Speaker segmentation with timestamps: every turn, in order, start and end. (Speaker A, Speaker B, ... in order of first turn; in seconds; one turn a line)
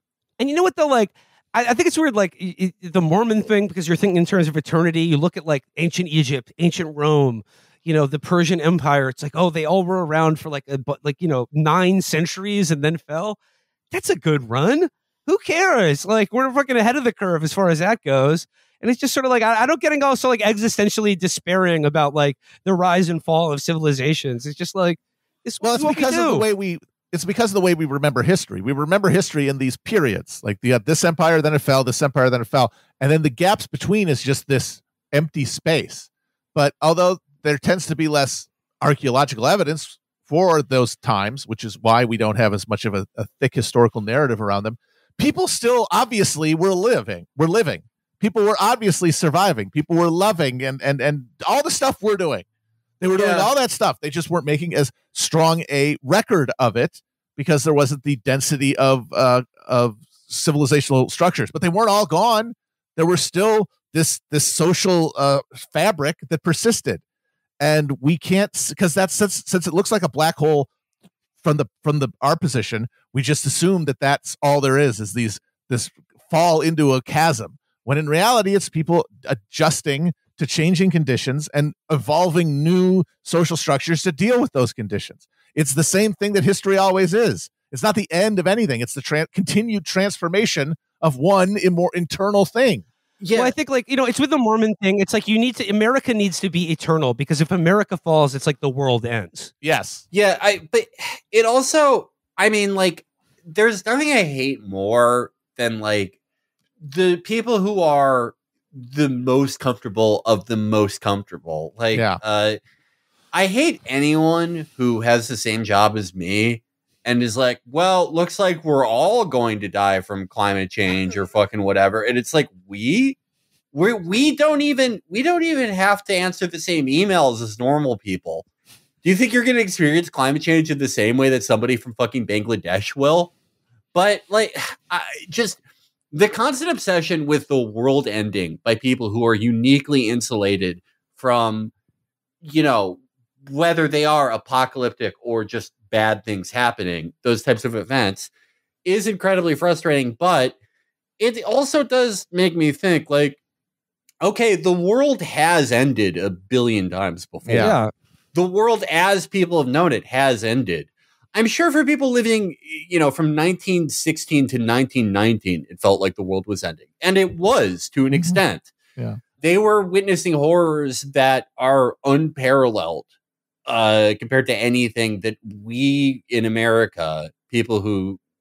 Speaker A: 0.4-13.4
Speaker A: 13.9-26.5
Speaker B: 25.6-52.5
Speaker B: 53.0-67.0
Speaker C: 53.1-53.5
Speaker B: 67.6-70.7
Speaker B: 71.4-92.8
Speaker C: 93.2-93.5
Speaker A: 93.3-99.5
Speaker B: 99.6-100.0
Speaker C: 100.1-106.2
Speaker C: 106.8-112.6
Speaker B: 111.9-112.2
Speaker C: 113.3-123.2
Speaker C: 123.7-128.4
Speaker C: 129.0-133.3
Speaker C: 133.9-135.6
Speaker C: 136.1-141.7
Speaker C: 142.4-148.3
Speaker C: 148.8-150.6
Speaker C: 151.2-153.4
Speaker C: 154.2-157.8
Speaker B: 157.5-157.8
Speaker A: 157.6-157.9
Speaker C: 158.3-168.7
Speaker B: 168.1-168.4
Speaker C: 169.4-173.1
Speaker C: 173.7-178.2